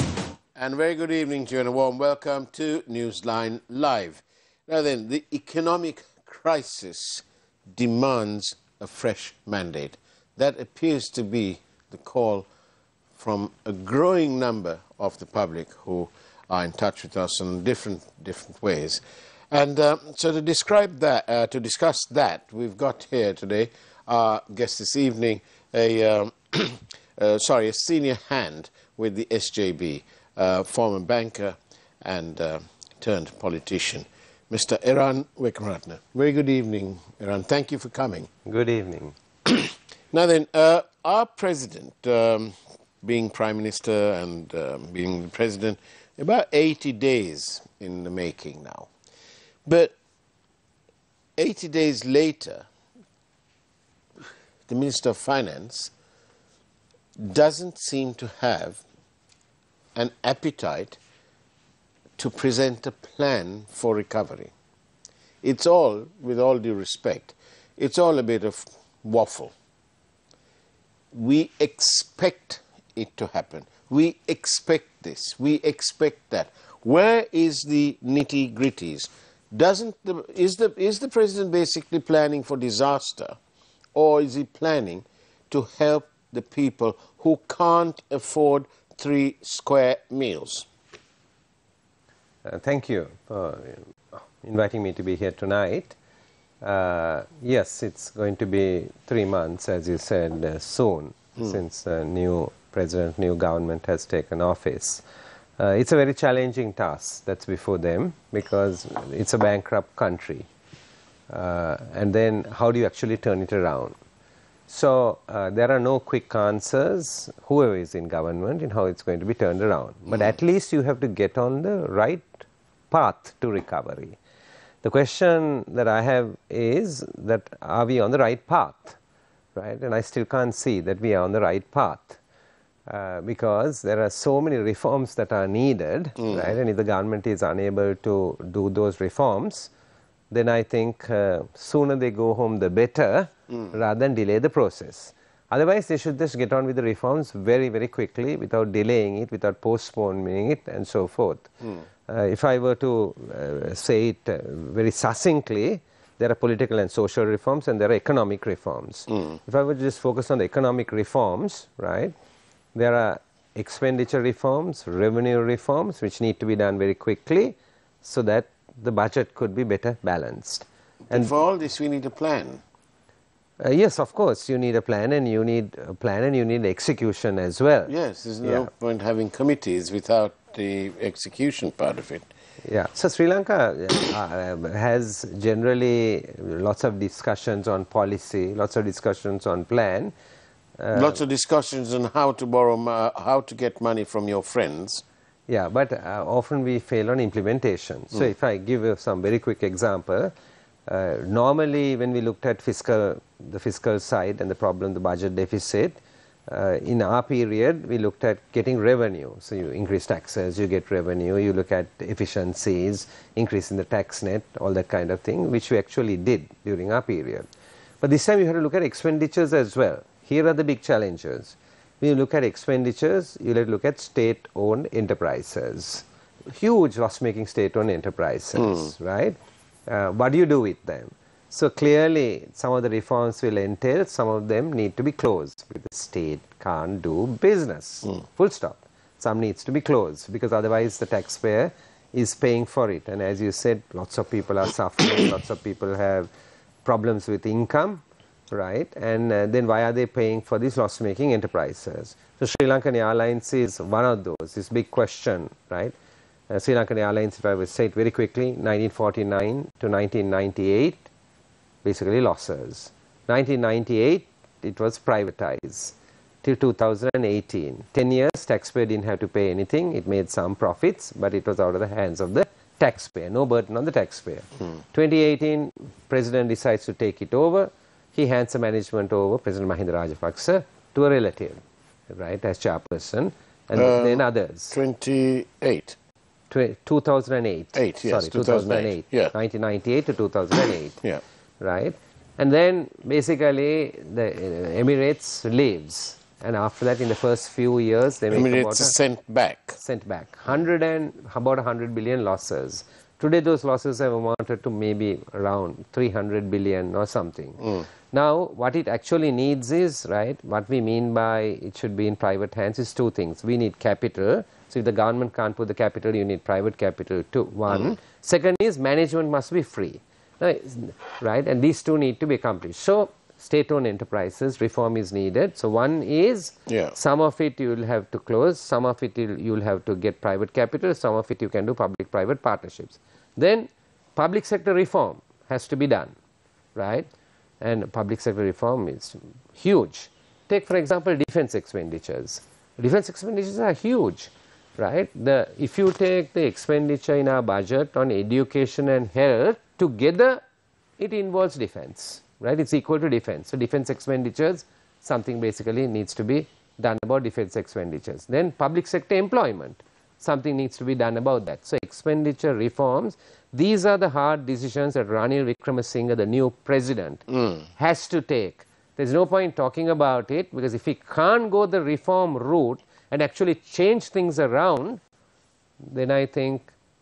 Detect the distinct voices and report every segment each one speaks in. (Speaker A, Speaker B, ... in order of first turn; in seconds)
Speaker A: 0.6-12.5, 13.2-38.3, 39.5-48.9, 49.6-50.0, 51.4-52.7, 54.7-55.9, 57.2-58.8, 60.0-61.0, 62.2-64.5, 65.4-69.5, 71.1-83.4, 83.9-90.7, 171.1-172.6, 177.9-182.3, 190.9-195.0, 283.8-286.0, 287.7-289.3, 298.3-299.8, 326.7-326.9, 367.3-367.6
Speaker B: 38.5-39.1, 92.5-96.0, 96.6-105.0, 105.6-110.5, 111.3-114.0, 114.7-124.2, 124.8-129.0, 129.6-132.2, 132.9-139.7, 140.3-151.5, 152.1-162.1, 162.8-171.3, 173.6-177.9, 178.4-178.7, 182.6-190.1, 190.8-191.2, 195.5-200.3, 200.9-217.5, 218.0-229.4, 229.9-246.3, 246.8-255.9, 256.5-261.1, 261.8-284.8, 286.5-291.0, 291.6-298.9, 299.8-336.1, 336.8-337.1, 337.6-350.4, 351.0-367.3, 367.8-375.0, 375.8-376.7